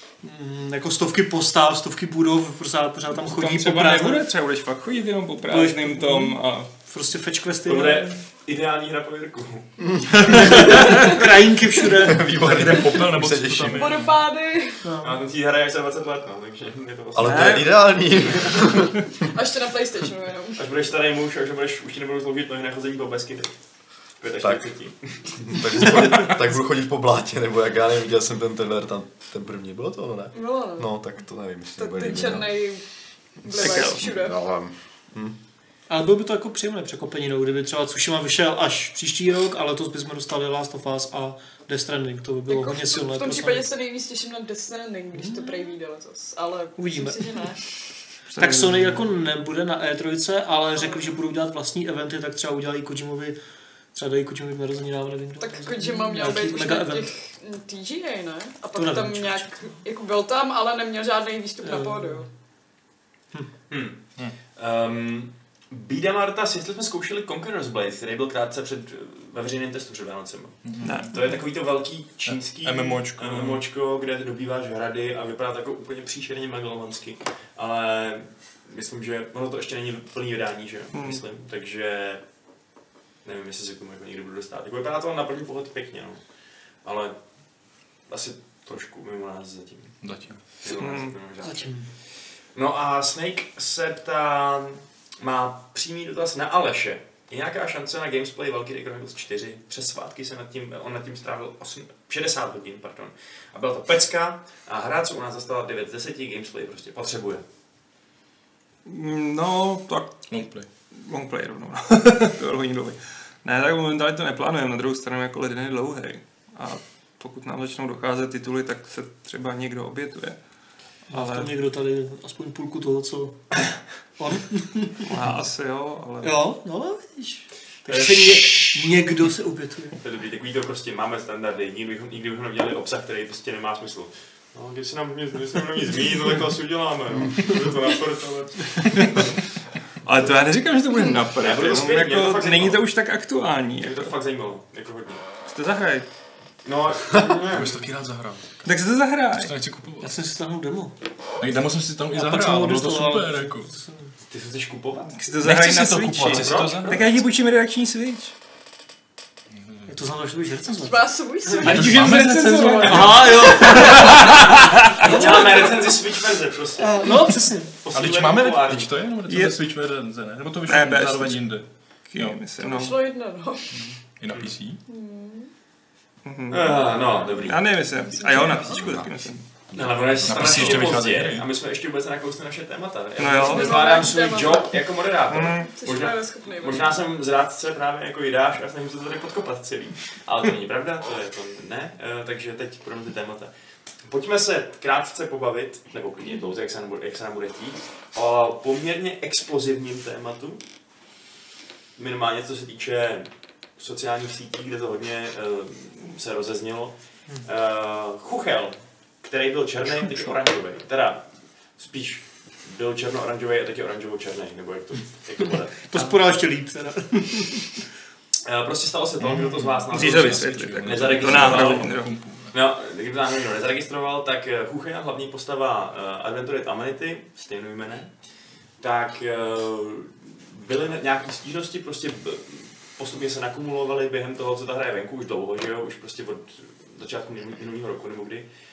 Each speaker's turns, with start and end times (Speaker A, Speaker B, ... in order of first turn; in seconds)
Speaker A: 0.2-4.3, 5.5-8.2, 10.2-12.3, 14.8-15.2, 35.9-43.7, 45.2-45.5, 46.8-47.3, 48.4-53.4, 53.9-57.1, 58.8-59.5, 61.6-62.3, 91.4-91.9, 121.1-123.5, 124.2-125.0, 126.2-130.0, 150.0-150.9, 152.1-154.1, 159.9-161.0, 162.8-164.1, 165.0-165.6, 166.8-167.7, 215.9-217.8
Speaker B: 3.2-6.7, 17.2-17.8, 33.6-34.0, 48.3-49.1, 70.8-71.2, 80.9-81.2, 90.7-91.2, 108.9-110.3, 110.9-120.4, 121.1-121.5, 125.0-126.4, 140.1-144.1, 145.5-146.1, 148.7-149.5, 155.1-158.3, 161.6-165.2, 169.3-169.6, 170.7-171.5, 172.1-173.0, 176.2-179.4, 183.2-184.1, 185.3-185.7, 219.9-222.1
Speaker C: 7.7-9.7, 15.0-17.8, 20.6-23.5, 24.2-25.9, 63.7-64.0, 64.6-82.2, 83.2-86.2, 86.8-87.2, 88.1-90.0, 90.5-91.7, 92.5-107.4, 127.9-128.8, 130.0-139.3, 141.4-142.8, 143.8-145.2, 146.6-147.8, 154.3-155.2, 156.2-157.2, 161.5-162.0, 162.6-167.2, 167.8-168.9, 174.3-174.6, 176.5-177.8, 179.7-193.5, 194.1-200.6, 202.0-215.8, 218.4-222.0, 222.5-228.1, 228.8-238.5
Speaker D: 10.0-10.4, 12.0-13.9, 17.1-19.0, 24.4-24.7, 25.4-32.6, 33.6-35.4
Speaker E: 12.3-14.2, 70.6-71.2, 72.2-73.6, 90.0-90.4, 110.3-110.7, 147.5-148.7, 149.3-150.1, 151.4-153.7, 155.4-157.1, 159.5-159.9, 161.6-163.2, 167.9-172.4, 173.7-174.8, 178.8-179.1, 179.8-181.5, 219.2-222.5
Speaker F: 13.7-14.8, 19.2-20.6, 30.3-30.9, 31.8-32.8, 33.4-34.4, 42.5-47.6, 55.4-62.3, 160.8-162.1, 163.3-164.0, 165.2-165.9, 172.6-173.8, 174.9-175.5, 178.0-178.8, 183.4-184.8, 185.6-187.0